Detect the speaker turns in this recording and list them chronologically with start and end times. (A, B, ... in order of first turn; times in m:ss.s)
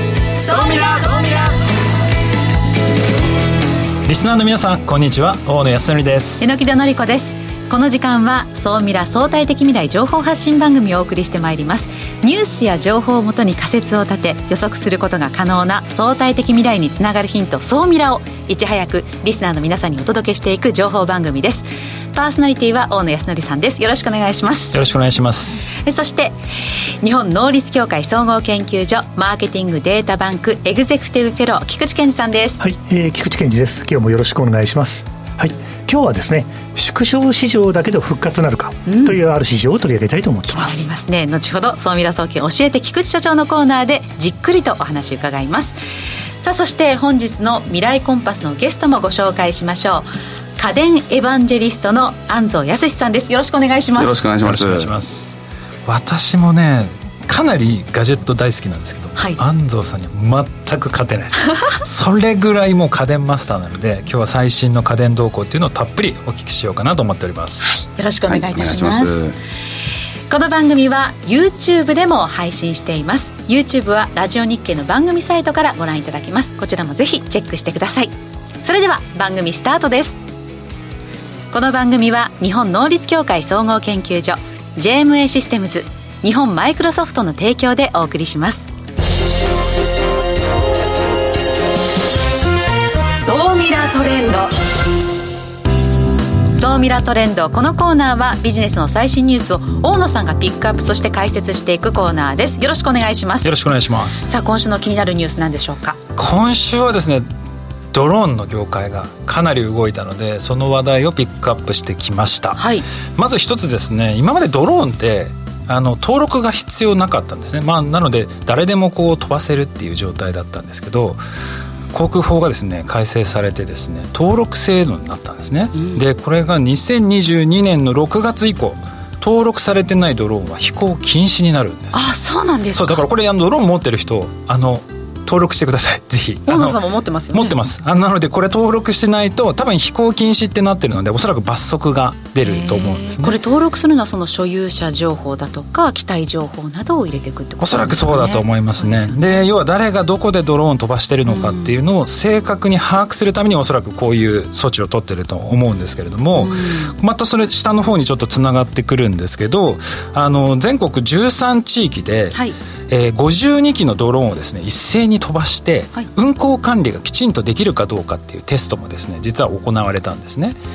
0:00.3-0:01.6 A
0:04.0-0:06.5 B
0:06.4-0:24.7 A
0:24.7-0:25.6 B
0:25.7-0:26.4 A
0:27.0-0:32.6 A
0:32.6-0:40.9 C
0:38.9-0:39.2 A
0:40.5-0:45.8 A
0:46.4-0:54.2 A
0:54.0-0:54.9 D
0:54.4-0:55.3 B
0:55.9-1:07.8 B
1:07.6-1:09.2 A
1:08.3-1:09.4 D
1:10.3-1:20.2 A
1:21.5-1:28.7 A
1:33.1-1:34.5 A
1:36.5-1:43.5 A
1:43.4-1:44.3 B
1:44.2-1:46.0 A
1:46.2-1:47.3 B
1:47.9-2:01.2 B
1:52.6-1:52.8 A
2:01.9-2:12.0 B
2:05.7-2:06.0 A
2:11.9-2:13.0 A
2:12.7-2:16.8 B
2:16.5-2:17.6 A
2:17.3-2:23.4 B
2:22.4-2:29.4 A
2:27.6-2:50.6 B
2:31.2-2:31.8 A
2:36.4-2:36.9 A